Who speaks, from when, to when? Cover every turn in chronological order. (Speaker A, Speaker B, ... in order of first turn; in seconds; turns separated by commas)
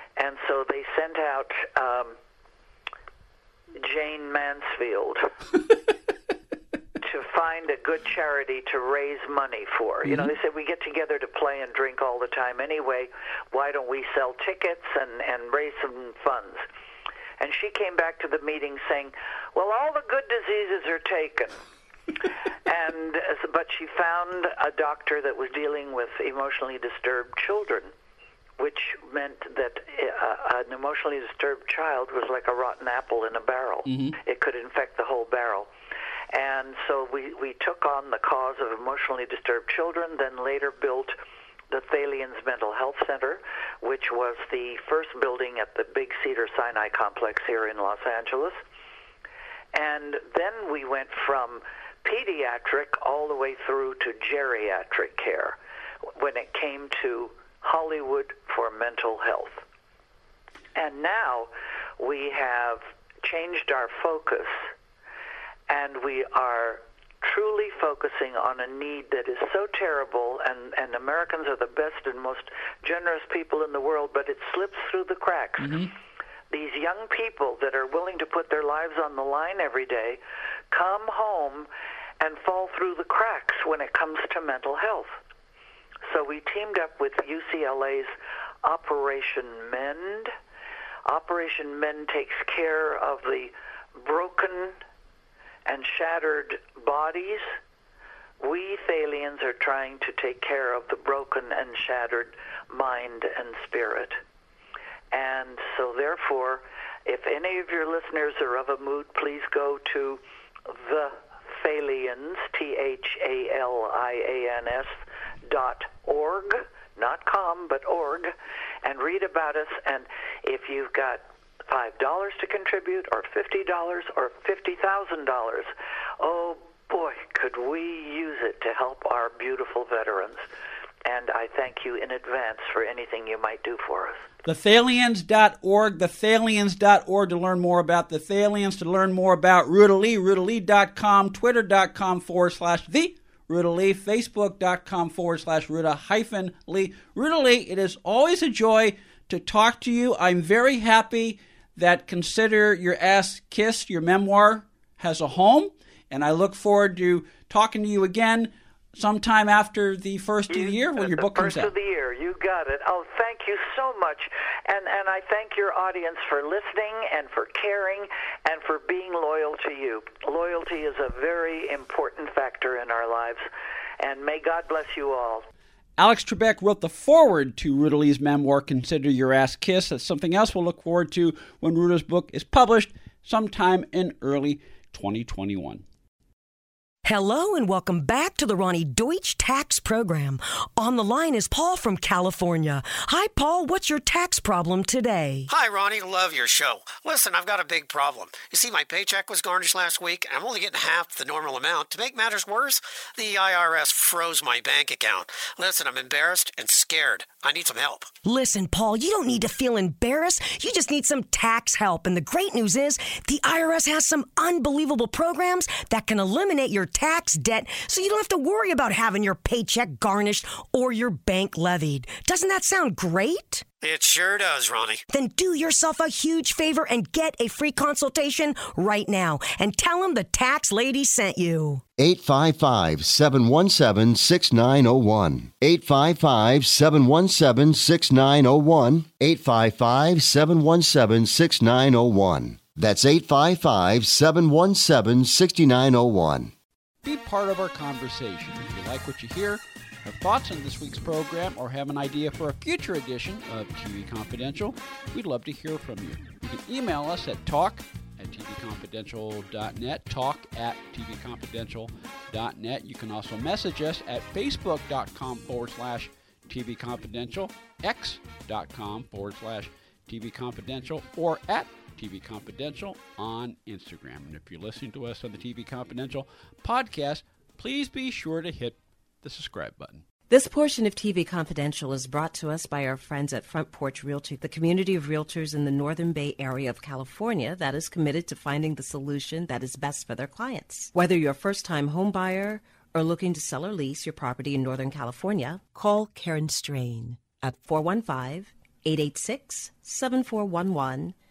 Speaker A: 0.2-2.1, Speaker A: 3.8-5.2, Speaker A: 7.0-16.6, Speaker B: 10.0-10.3, Speaker A: 17.4-21.6, Speaker A: 22.1-27.9, Speaker A: 28.6-35.7, Speaker B: 33.9-34.2, Speaker A: 36.3-41.1, Speaker A: 41.7-48.6, Speaker A: 49.7-55.6, Speaker A: 56.2-59.6, Speaker A: 60.7-64.7, Speaker A: 65.7-75.8, Speaker B: 75.6-75.9, Speaker A: 76.5-80.2, Speaker A: 80.7-81.7, Speaker A: 82.2-85.2, Speaker A: 86.1-88.1, Speaker A: 88.6-90.3, Speaker A: 91.1-94.8, Speaker A: 95.7-97.5, Speaker A: 98.4-104.2, Speaker A: 105.1-130.4, Speaker A: 131.0-134.2, Speaker B: 134.4-161.7, Speaker A: 160.5-173.4, Speaker A: 174.0-175.5, Speaker B: 176.0-185.8, Speaker C: 187.0-195.5, Speaker D: 195.5-208.2, Speaker C: 208.2-223.6, Speaker D: 223.8-225.0, Speaker C: 225.1-231.8, Speaker E: 232.0-246.5, Speaker B: 247.0-280.0, Speaker F: 280.3-301.1